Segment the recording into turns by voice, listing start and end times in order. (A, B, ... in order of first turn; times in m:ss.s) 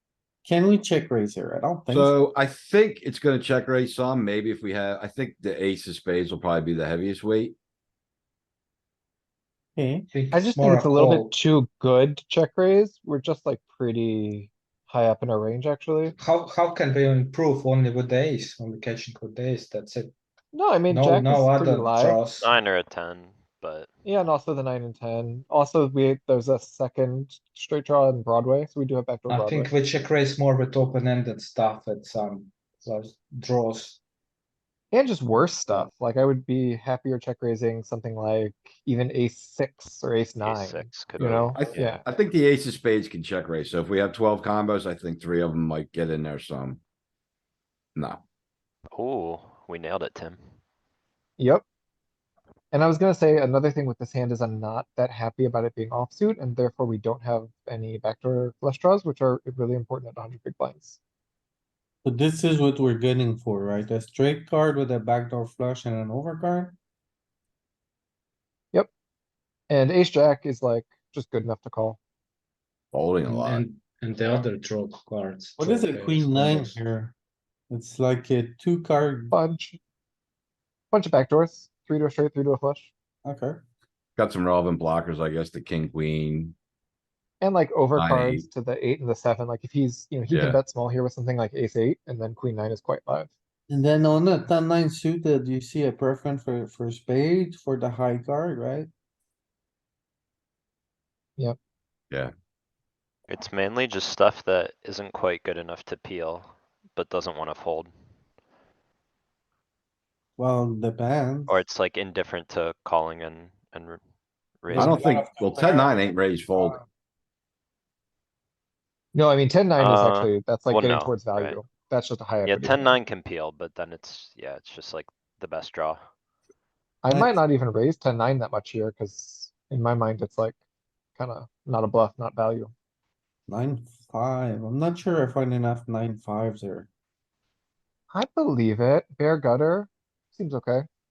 0:00.4-0:02.2 A
0:01.9-0:07.6 B
0:09.8-0:10.1 A
0:10.1-0:11.3 C
0:10.3-0:16.2 D
0:16.2-0:20.1 C
0:20.5-0:22.2 D
0:20.9-0:22.5 C
0:22.4-0:23.9 E
0:24.0-0:29.7 D
0:29.3-0:34.0 C
0:34.9-0:42.0 D
0:40.4-0:42.0 E
0:41.2-0:46.8 B
0:48.0-0:48.2 B
0:48.9-0:50.4 E
0:51.4-0:51.6 D
0:52.7-1:01.0 D
1:02.0-1:06.8 A
1:09.7-1:12.0 D
1:12.9-1:13.6 B
1:13.3-1:16.8 C
1:15.6-1:17.1 A
1:17.7-1:19.3 A
1:19.3-1:19.8 D
1:20.9-1:22.9 D
1:23.2-1:23.6 A
1:24.2-1:26.6 B
1:27.4-1:33.3 D
1:28.0-1:28.5 B
1:30.3-1:30.6 B
1:33.7-1:38.9 A
1:43.3-1:47.9 E
1:50.4-1:51.6 A
1:51.5-1:54.0 E
1:54.6-1:55.0 E
1:54.7-1:56.0 A
1:54.7-1:56.8 B
1:56.6-1:56.8 A
1:59.1-2:03.0 D
1:59.8-2:01.6 E
2:02.4-2:06.0 E
2:07.0-2:10.6 D
2:07.1-2:07.4 A
2:11.2-2:12.7 D
2:13.5-2:16.9 A
2:18.1-2:20.9 D